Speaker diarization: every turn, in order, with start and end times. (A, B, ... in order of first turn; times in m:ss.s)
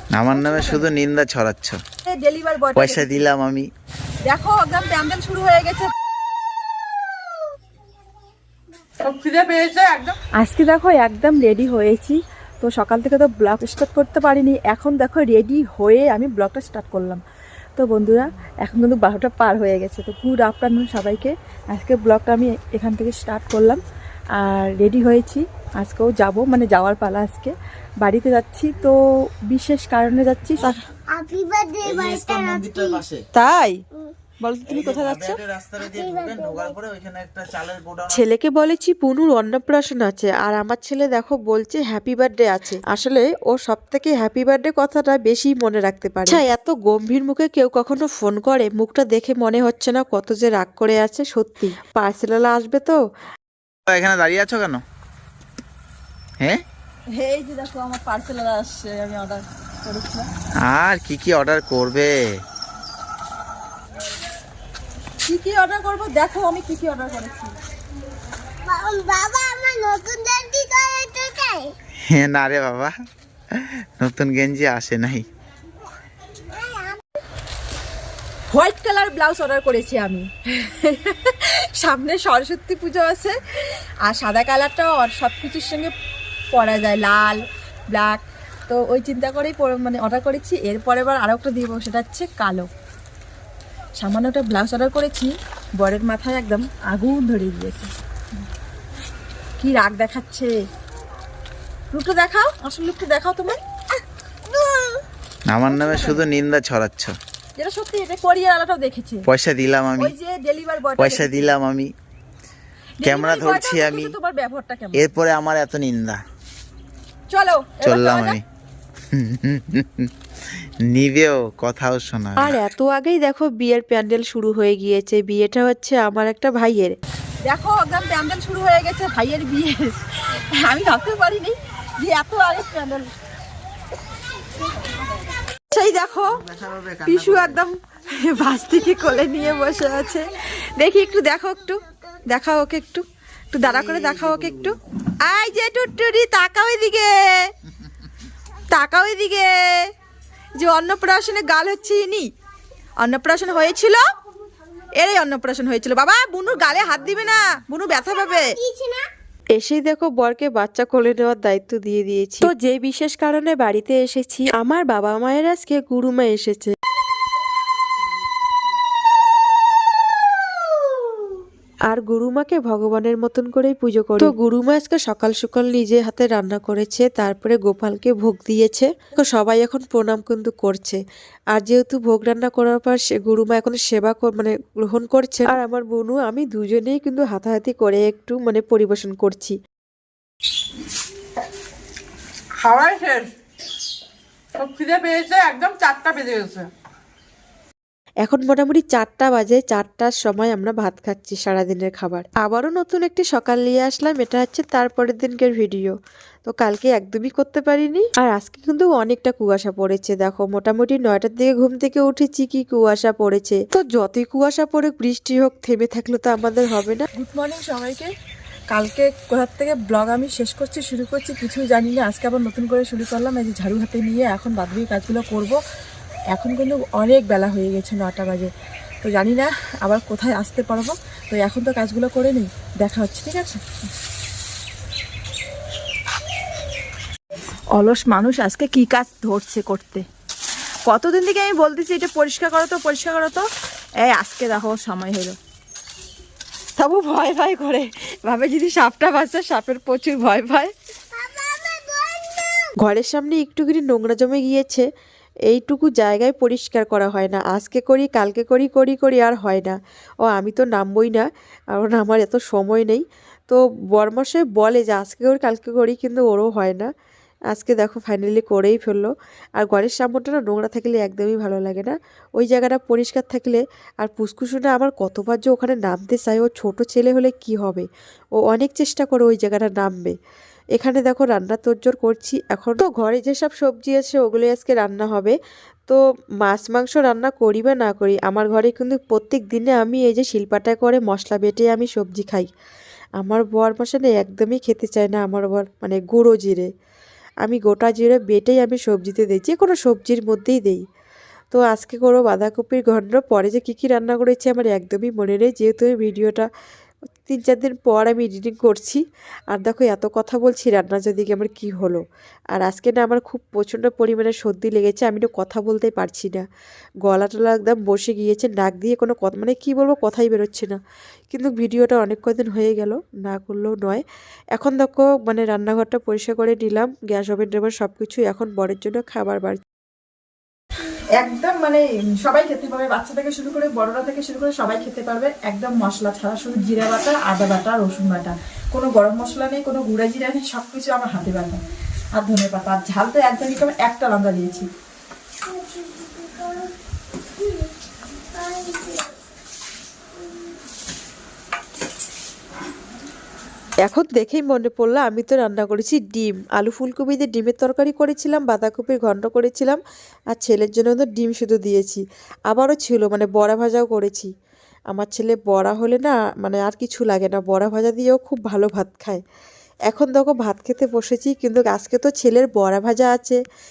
0:00.2-0:01.8 A
0:00.3-0:00.9 B
0:02.1-0:03.2 B
0:02.8-0:03.6 A
0:04.2-0:05.9 B
0:09.0-0:10.2 C
0:10.4-0:17.2 B
0:17.8-0:23.8 B
0:24.4-0:29.0 B
0:29.5-0:30.8 B
0:31.1-0:33.0 D
0:31.8-0:33.2 A
0:33.3-0:33.8 B
0:34.4-0:35.4 B
0:34.7-0:38.2 A
0:35.9-0:36.7 D
0:38.1-0:53.0 E
0:53.9-0:54.8 A
0:57.2-1:00.3 B
1:00.7-1:02.1 A
1:05.2-1:07.6 B
1:08.6-1:11.7 D
1:12.1-1:12.9 A
1:13.6-1:15.3 A
1:16.6-1:16.8 D
1:18.5-1:23.4 B
1:24.0-1:25.9 B
1:26.5-1:32.7 B
1:34.0-1:37.9 B
1:39.6-1:40.5 B
1:41.9-1:43.6 B
1:45.5-1:47.1 A
1:45.7-1:46.2 B
1:47.6-1:49.3 B
1:49.3-1:50.1 A
1:50.0-1:51.5 B
1:51.0-1:51.9 A
1:53.0-1:55.1 B
1:53.0-1:54.1 A
1:55.0-1:56.2 A
1:57.3-1:58.4 B
1:57.8-1:58.4 A
1:59.1-2:00.1 A
2:00.9-2:02.6 A
2:02.4-2:07.0 E
2:07.4-2:13.1 B
2:15.7-2:16.4 B
2:16.4-2:17.6 A
2:17.0-2:20.2 B
2:20.8-2:21.8 B
2:22.3-2:27.5 B
2:23.7-2:24.5 A
2:28.7-2:29.9 B
2:30.6-2:32.3 B
2:33.0-2:34.0 B
2:35.0-2:38.6 B
2:38.6-2:39.1 D
2:39.6-2:46.7 E
2:51.9-3:01.0 E
3:01.5-3:09.6 E
3:12.6-3:13.3 C
3:14.6-3:16.7 C
3:18.2-3:25.9 E
3:26.5-3:37.1 E
3:37.1-3:38.1 B
3:38.7-3:45.6 B
3:46.3-3:48.5 B
3:49.0-3:53.6 B
3:57.8-4:00.0 B
4:00.9-4:03.5 B
4:04.0-4:05.4 B
4:06.8-4:10.7 B
4:11.4-4:12.3 D
4:12.8-4:14.9 E
4:15.5-4:26.9 E
4:27.5-4:37.9 E
4:38.4-4:40.2 E
4:40.8-4:45.4 E
4:45.9-4:52.5 E
4:53.2-4:56.7 E
4:57.4-5:00.8 E
5:01.5-5:06.5 E
5:07.2-5:12.0 E
5:12.5-5:16.4 E
5:17.0-5:20.8 E
5:21.3-5:24.0 E
5:24.6-5:29.6 E
5:31.2-5:41.6 B
5:42.2-5:44.7 B
5:53.9-5:59.8 E
6:00.3-6:04.3 E
6:04.9-6:09.2 E
6:09.9-6:13.4 E